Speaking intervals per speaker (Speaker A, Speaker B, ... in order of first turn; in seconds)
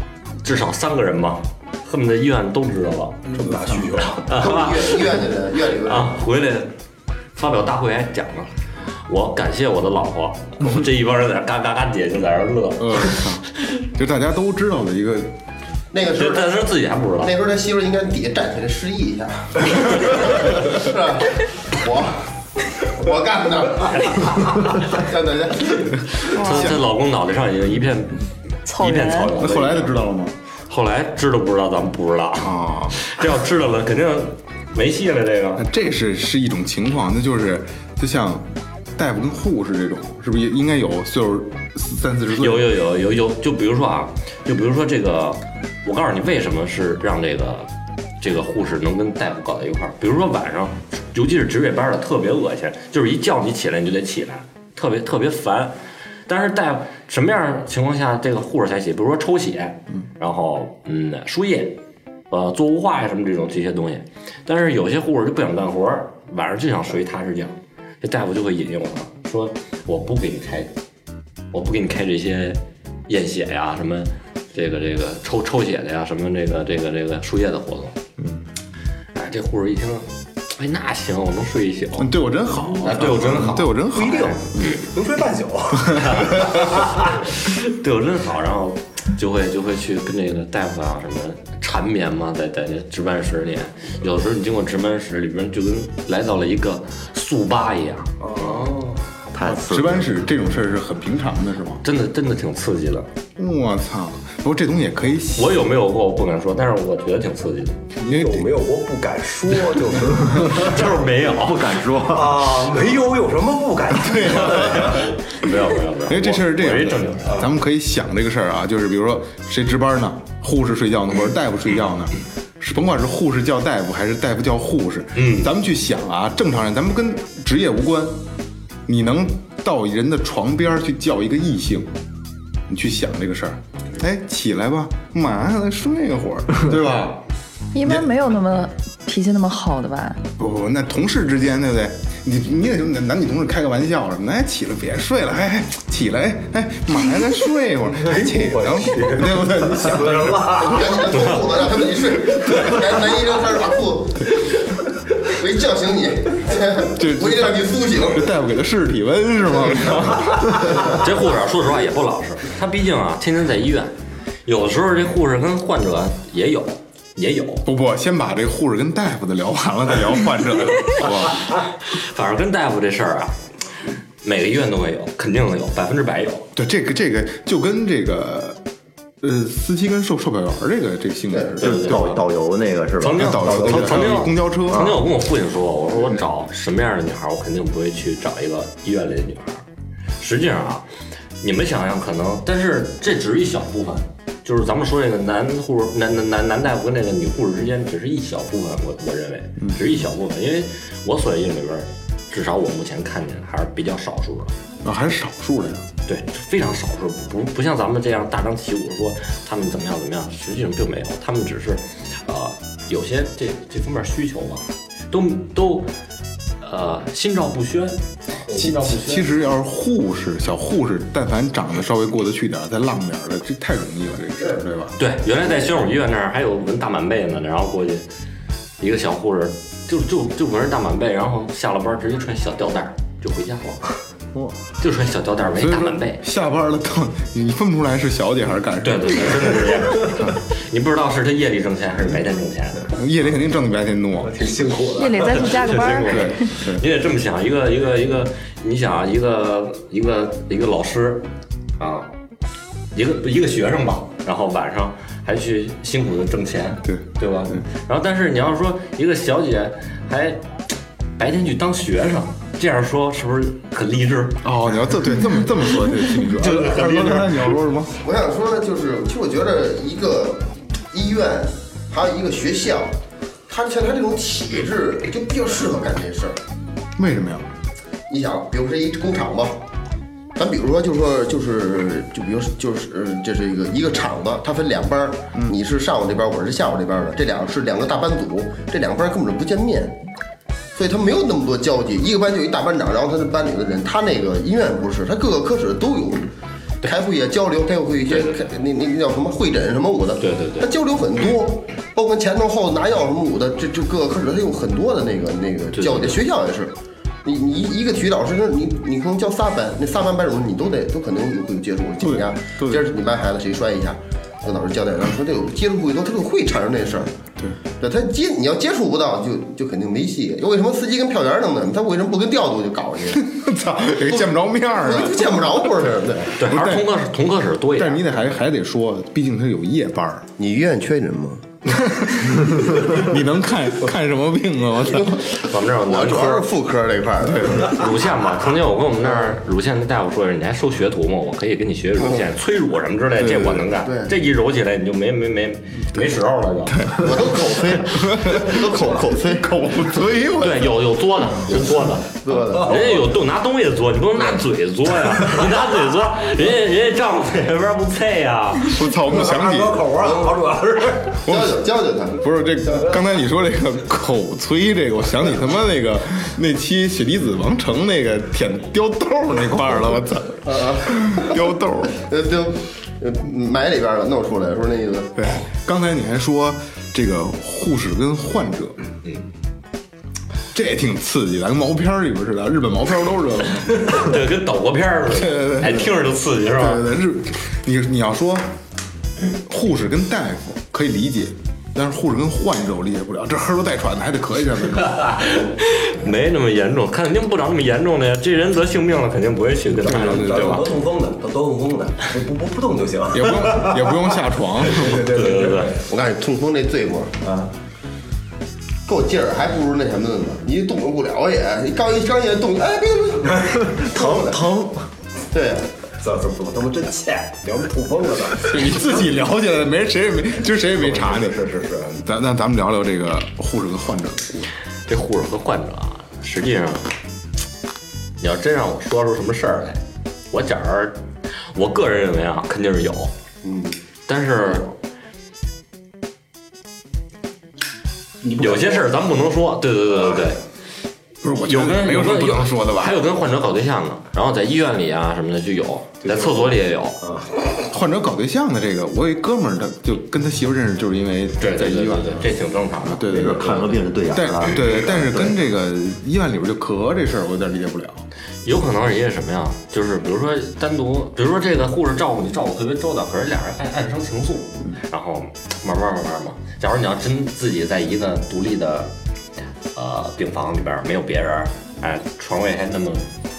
Speaker A: 0.4-3.3, 4.2-6.7, 7.3-8.5, 9.1-13.3, 16.1-17.3, 26.3-30.0, 30.7-35.6, 42.4-47.7, 48.2-55.8, 56.3-61.8, 62.3-70.7, 71.5-78.0, 79.1-82.1, 82.8-84.9, 86.0-98.8, 101.8-103.1, 105.3-107.8, 110.5-111.8, 114.3-117.4, 125.1-125.5, 160.8-163.9, 164.4-167.6, 171.8-173.4, 174.2-176.5, 181.6-182.2, 183.0-189.6, 190.2-190.8, 191.4-204.5, 206.1-215.9, 216.6-219.2, 225.0-228.0, 228.8-233.9, 234.8-236.2, 238.8-242.9, 245.4-251.2, 251.8-252.1, 252.9-260.4, 261.2-264.4, 266.4-267.4, 298.1-298.4, 300.2-300.7, 305.7-306.2, 326.4-328.0, 335.2-336.5, 337.7-346.9, 350.4-358.7, 383.8-386.9, 394.9-400.6, 405.1-405.7, 424.9-426.9, 428.2-433.1, 434.1-434.7, 438.4-440.4, 441.4-447.0, 451.4-453.1, 458.4-468.9, 469.7-473.1
Speaker B: 3.3-4.5, 83.9-86.7, 98.2-99.0, 108.0-110.8, 112.1-115.0, 148.0-151.1, 218.5-219.0, 244.2-245.5, 359.1-361.1, 399.8-404.0, 404.6-405.8, 407.2-407.5, 416.0-418.8, 420.8-422.0, 438.2-438.9, 446.0-447.4
Speaker C: 3.4-4.2, 12.8-15.3, 29.3-30.3, 32.4-33.0, 35.6-42.7, 82.0-84.6, 99.4-101.8, 103.4-105.6, 108.0-108.5, 114.0-115.1, 116.1-128.2, 128.8-131.9, 132.7-137.2, 137.8-138.1, 140.4-151.0, 156.9-160.9, 167.6-171.4, 176.5-178.6, 179.2-182.1, 183.1-185.1, 199.6-200.0, 204.8-205.8, 218.6-224.9, 235.5-239.8, 242.9-244.3, 246.0-246.8, 256.8-257.6, 264.4-268.0, 277.0-277.5, 312.0-312.9, 323.1-325.5, 326.4-326.9, 327.7-330.3, 331.7-335.3, 337.2-337.7, 343.2-343.6, 346.7-348.7, 349.4-350.7, 358.6-360.0, 361.2-361.6, 362.2-372.0, 375.2-378.8, 380.5-384.1, 385.1-386.0, 386.5-388.5, 389.4-395.1, 399.8-400.7, 403.1-405.1, 418.4-424.4, 441.2-443.0, 447.7-452.3, 452.8-458.0
Speaker D: 4.3-6.1, 15.9-16.6, 17.2-26.2, 150.6-154.4, 155.2-158.3, 181.3-181.9, 268.0-272.9, 273.5-276.4, 278.1-279.6, 280.4-290.0, 290.7-296.3, 296.8-317.1, 317.8-323.2, 324.8-326.3, 330.4-331.4, 335.8-337.9, 339.0-339.3, 343.7-344.1, 347.0-350.5, 351.5-353.1, 361.2-362.2, 370.4-371.4, 371.9-375.2, 405.9-407.1, 408.9-414.4, 415.3-415.7, 433.4-433.8
Speaker E: 26.3-26.8, 28.6-29.4, 137.7-140.2, 244.9-246.5
Speaker F: 99.3-100.2, 111.2-112.5, 181.6-184.9, 413.8-414.9, 453.1-455.1